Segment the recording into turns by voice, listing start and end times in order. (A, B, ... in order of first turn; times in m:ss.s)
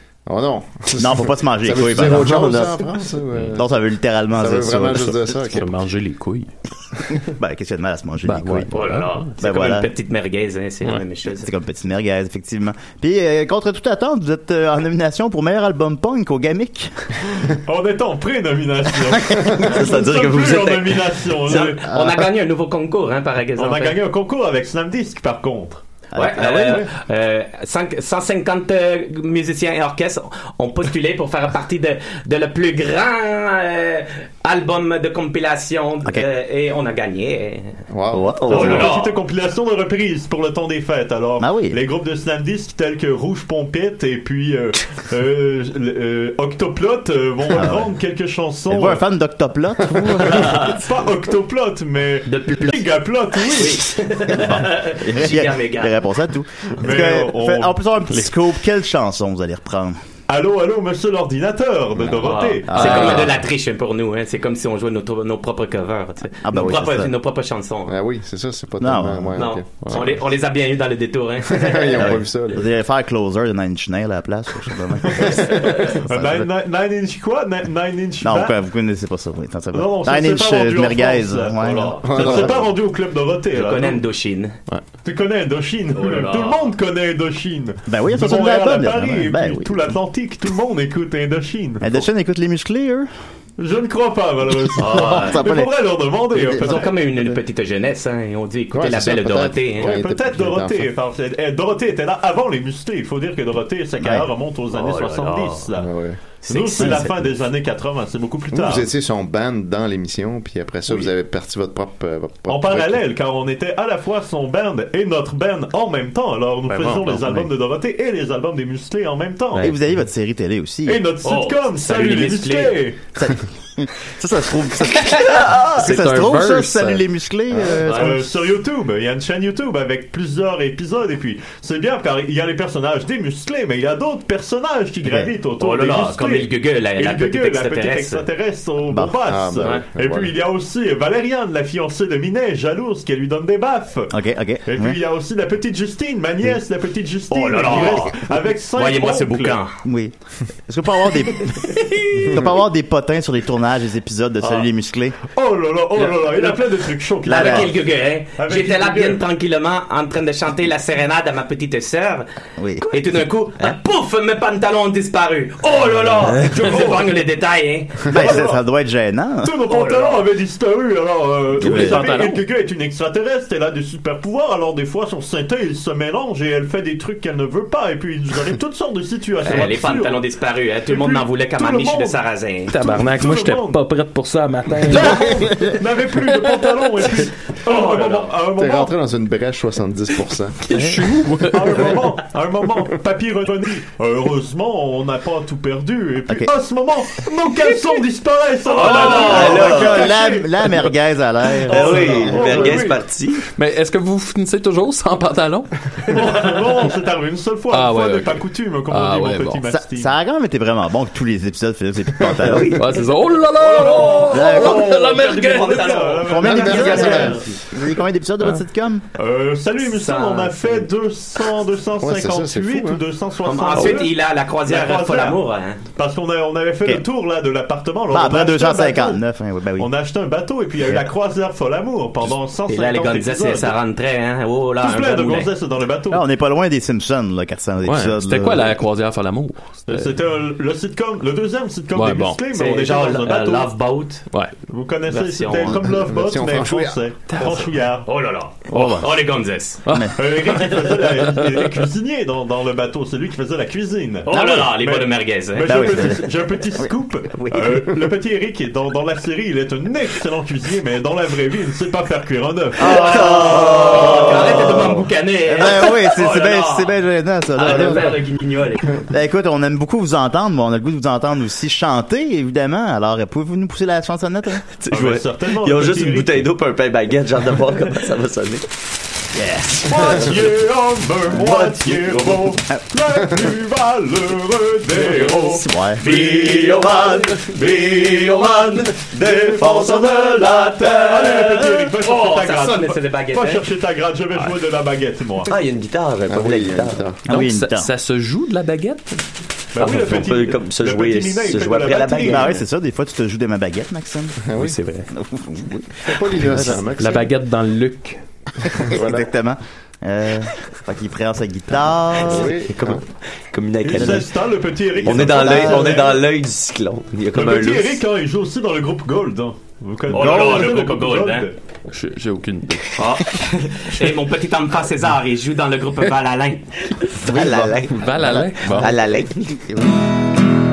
0:00.3-0:03.7 A
0:01.0-0:02.6 B
0:02.1-0:02.7 C
0:03.5-0:05.3 B
0:04.4-0:05.7 A
0:05.5-0:06.5 D
0:07.3-0:08.7 B
0:08.2-0:09.3 D
0:08.7-0:11.5 E
0:09.4-0:09.9 B
0:11.4-0:16.9 B
0:17.7-0:21.8 F
0:19.6-0:21.8 C
0:21.5-0:24.0 E
0:23.6-0:25.8 F
0:26.1-0:26.9 B
0:26.2-0:37.7 E
0:37.9-0:38.6 A
0:38.1-0:38.9 C
0:38.5-0:39.2 E
0:38.5-0:49.0 F
0:41.4-0:41.8 B
0:47.5-0:47.9 B
0:48.7-0:50.7 B
0:50.3-0:50.7 E
0:50.4-0:54.0 F
0:52.3-0:52.8 E
0:53.4-0:56.0 E
0:54.3-1:00.0 B
0:56.8-0:57.8 F
1:00.3-1:03.3 F
1:02.2-1:07.9 E
1:02.7-1:03.4 B
1:06.4-1:07.1 B
1:07.9-1:10.1 A
1:08.8-1:09.4 B
1:09.4-1:12.1 E
1:11.5-1:12.6 A
1:12.0-1:16.5 B
1:15.1-1:18.6 F
1:18.2-1:22.4 B
1:19.7-1:24.0 F
1:22.0-1:22.7 A
1:23.5-1:24.6 E
1:25.0-1:32.0 F
1:25.9-1:26.7 E
1:27.9-1:29.9 B
1:31.8-1:33.1 B
1:33.6-1:37.0 F
1:34.8-1:35.4 E
1:35.0-1:35.7 B
1:36.3-1:36.8 B
1:36.5-1:39.9 E
1:38.7-1:40.9 A
1:39.8-1:45.9 F
1:44.0-1:44.3 B
1:44.7-1:45.7 E
1:45.8-1:46.2 A
1:46.5-1:47.1 E
1:46.5-1:48.9 F
1:46.8-1:47.0 B
1:48.5-1:53.0 A
1:52.5-1:59.7 F
1:56.7-1:57.5 D
1:59.6-2:01.0 B
2:00.9-2:03.0 F
2:01.2-2:02.8 E
2:03.2-2:08.3 B
2:05.7-2:07.0 D
2:07.9-2:29.6 F
2:15.6-2:18.2 E
2:19.3-2:20.3 A
2:24.1-2:25.0 B
2:27.3-2:28.2 E
2:28.7-2:29.7 E
2:29.8-2:30.1 B
2:30.7-2:35.2 B
2:35.3-2:37.8 F
2:36.0-2:36.6 E
2:37.2-2:42.3 E
2:37.3-2:37.7 B
2:38.4-2:39.2 F
2:42.6-2:42.9 B
2:42.8-2:48.2 E
2:46.6-2:47.1 F
2:48.1-2:48.6 F
2:48.1-2:49.5 B
2:49.4-3:00.2 F
2:49.7-2:50.2 E
2:51.6-2:52.4 D
2:51.6-2:52.0 B
2:59.4-3:02.7 E
3:00.9-3:02.2 F
3:02.7-3:05.7 D
3:02.8-3:03.8 F
3:04.8-3:08.9 F
3:06.3-3:07.1 D
3:07.7-3:08.3 E
3:08.6-3:10.6 A
3:10.6-3:12.0 D
3:10.7-3:11.0 B
3:11.5-3:20.7 F
3:18.8-3:20.2 C
3:18.9-3:19.4 E
3:19.1-3:22.6 B
3:21.7-3:23.4 C
3:21.7-3:23.0 F
3:23.6-3:26.6 D
3:26.1-3:30.1 F
3:27.7-3:29.7 D
3:29.7-3:32.8 B
3:32.4-3:33.0 C
3:32.8-3:36.0 D
3:33.6-3:37.5 E
3:33.7-3:37.4 F
3:34.3-3:35.0 B
3:36.2-3:39.0 B
3:36.4-3:37.4 A
3:39.2-3:49.2 F
3:39.9-3:40.9 E
3:42.0-3:43.0 A
3:43.4-3:45.8 E
3:48.1-3:49.9 B
3:49.8-3:53.8 F
3:52.7-3:55.5 E
3:54.8-3:56.2 F
3:56.1-3:58.8 B
3:57.8-4:00.2 D
3:59.9-4:03.7 F
4:01.9-4:02.4 D
4:02.5-4:04.3 E
4:04.7-4:08.1 F
4:05.1-4:05.8 E
4:05.8-4:07.0 A
4:07.3-4:07.6 D
4:08.0-4:09.8 E
4:08.7-4:09.1 B
4:08.8-4:09.0 D
4:09.9-4:10.3 D
4:09.9-4:10.1 B
4:10.2-4:24.3 F
4:14.2-4:16.1 E
4:14.3-4:14.7 B
4:15.7-4:17.9 B
4:22.8-4:26.9 E
4:23.0-4:24.5 B
4:23.1-4:24.1 C
4:25.5-4:28.2 B
4:27.6-4:28.9 E
4:29.1-4:34.6 B
4:34.8-4:38.6 C
4:34.9-4:36.5 F
4:39.3-4:40.2 B
4:39.8-4:46.8 F
4:41.5-4:42.2 C
4:45.3-4:46.0 B
4:46.0-4:51.8 C
4:49.3-4:50.0 F
4:51.0-4:55.5 F
4:52.0-4:53.6 E
4:55.4-4:57.1 C
4:56.3-4:57.2 A
4:57.3-4:57.9 B
4:57.3-4:59.2 D
4:59.7-5:02.5 F
4:59.8-5:02.6 C
5:02.2-5:04.5 B
5:04.4-5:04.8 A
5:04.6-5:05.1 D
5:05.1-5:06.8 B
5:06.0-5:07.3 A
5:06.6-5:08.2 D
5:08.6-5:09.3 A
5:08.9-5:12.6 B
5:12.2-5:13.0 A
5:12.3-5:14.4 C
5:13.8-5:16.2 F
5:14.0-5:14.2 B
5:15.0-5:18.0 C
5:15.0-5:16.1 B
5:17.3-5:21.6 F
5:20.1-5:21.5 E
5:21.9-5:23.0 D
5:23.0-5:26.6 E
5:27.2-5:28.1 C
5:27.2-5:29.0 B
5:28.0-5:29.0 D
5:28.7-5:29.6 C
5:29.5-5:30.0 B